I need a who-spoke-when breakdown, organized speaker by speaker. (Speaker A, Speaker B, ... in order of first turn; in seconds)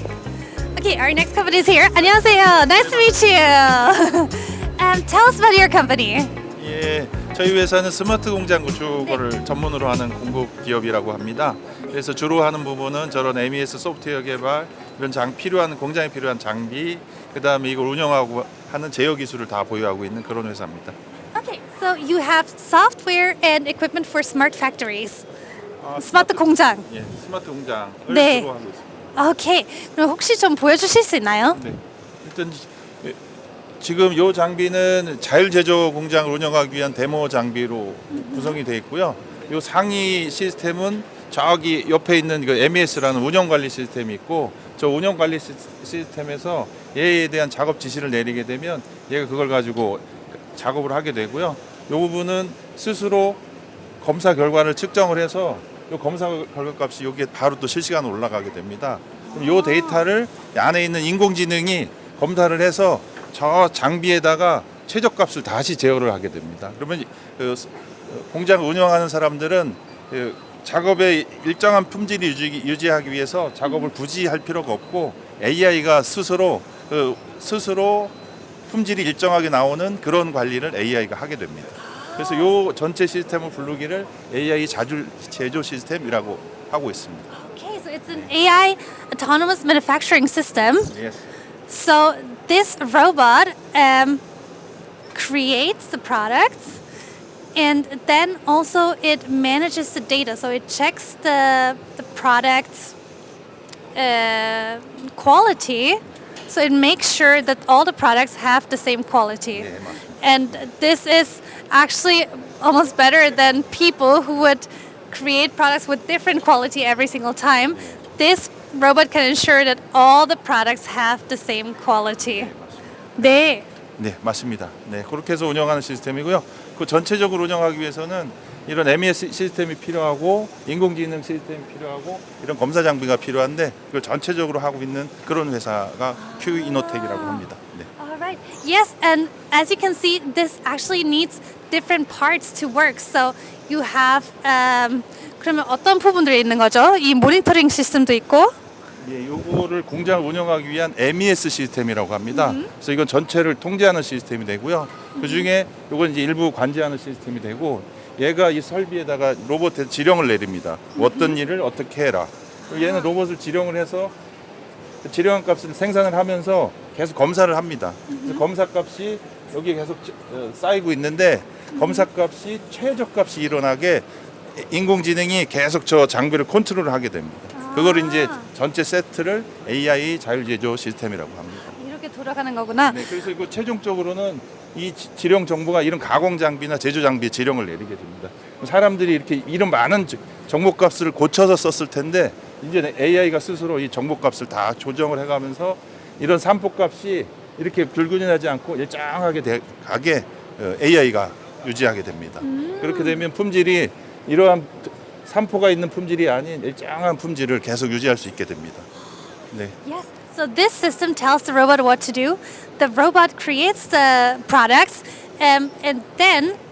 Speaker A: 0.7-6.4, 21.3-25.2, 25.9-26.9, 28.1-28.5, 29.1-31.6, 38.1-38.6, 59.3-60.0, 81.8-82.5, 87.3-90.9, 91.7-94.2, 95.1-96.8, 97.5-102.9, 103.9-122.5, 123.2-123.7, 136.2-148.5, 152.3-152.7, 155.2-155.5, 160.9-161.3, 162.7-163.1, 168.1-168.4, 171.7-172.1, 177.5-178.5, 181.7-183.1, 202.4-203.2, 209.8-216.6
Speaker B: 2.7-3.3, 6.5-20.9, 25.8-29.1, 31.5-33.2, 33.8-53.4, 54.0-78.1, 78.7-87.3, 90.9-91.2, 109.5-110.2, 117.7-118.0, 122.3-123.3, 124.0-137.9, 149.0-164.1, 165.0-181.7, 182.8-208.9